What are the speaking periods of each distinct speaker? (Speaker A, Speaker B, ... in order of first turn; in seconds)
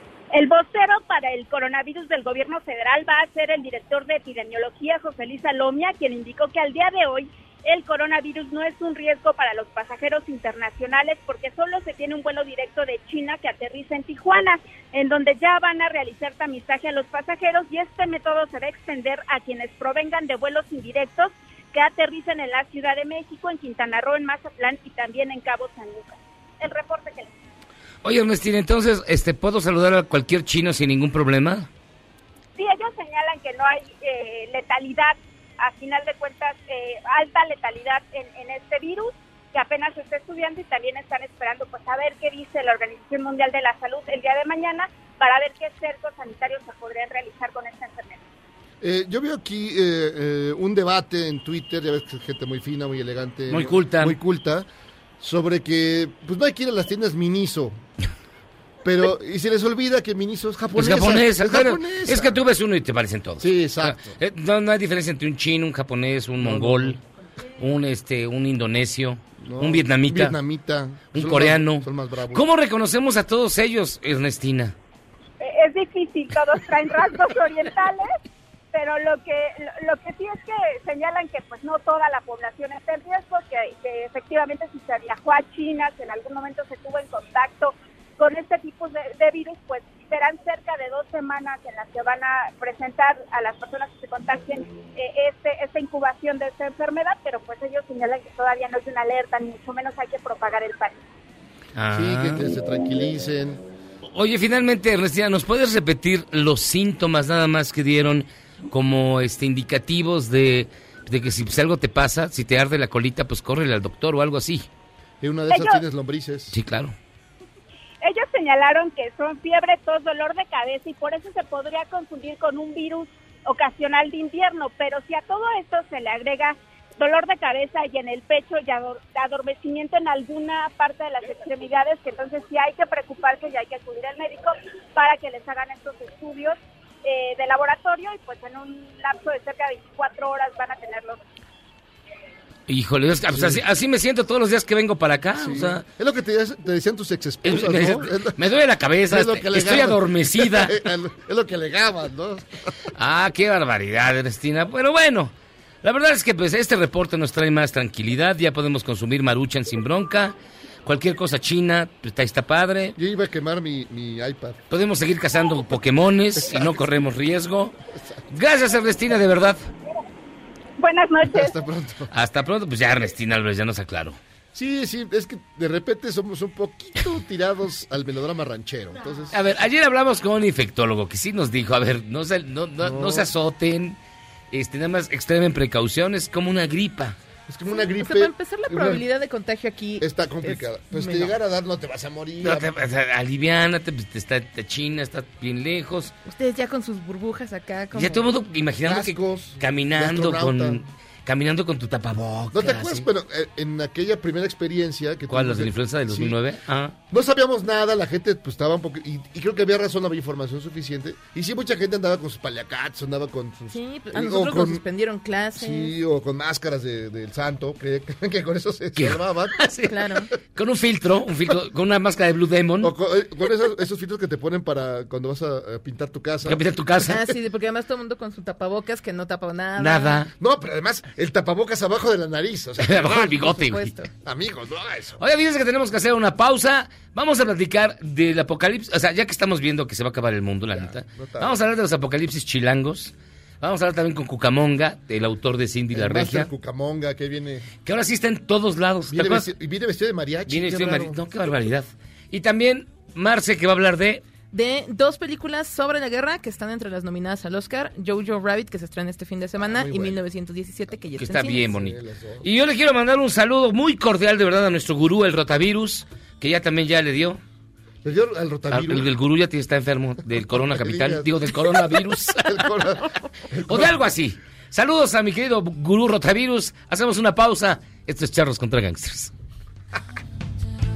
Speaker A: 0.3-27.3, 32.5-48.2, 75.4-78.0, 78.7-100.9, 115.5-115.8, 118.0-141.2, 170.8-171.5
Speaker B: 28.0-31.7, 53.5-54.2, 60.7-67.0, 67.6-70.4, 71.1-74.8, 101.8-102.5, 104.1-114.7, 116.5-116.9, 142.7-145.8, 147.4-150.8, 153.0-163.0, 164.7-167.7, 168.3-169.6, 172.1-174.2, 179.3-184.0, 184.5-187.2, 192.4-196.1, 197.9-203.1, 205.3-206.9, 218.9-220.0, 220.5-222.9, 226.4-227.3, 229.8-230.3, 232.8-233.9, 235.2-246.5, 247.8-249.5, 250.4-254.2, 261.2-267.4, 268.7-272.7, 273.7-279.3
Speaker C: 48.8-54.7, 55.2-57.8, 58.8-62.4, 63.4-64.2, 66.4-67.0, 69.4-72.4, 101.9-103.6, 115.2-116.5, 143.3-143.6, 145.4-148.4, 149.1-152.4, 163.0-164.6, 166.4-166.8, 167.9-168.2, 171.3-172.1, 174.5-179.4, 182.8-183.3, 187.5-189.0, 190.0-192.7, 198.8-200.8, 202.5-206.3, 207.1-214.8, 215.6-219.6, 222.8-226.6, 230.4-233.4, 234.2-235.2, 240.7-241.6, 245.9-247.7, 249.1-251.2, 259.6-260.2, 261.5-262.5, 268.0-269.1, 270.5-273.9
Speaker D: 187.7-191.3, 196.2-198.3, 213.7-215.9, 219.9-220.3, 227.1-230.2, 233.3-234.1, 254.5-261.7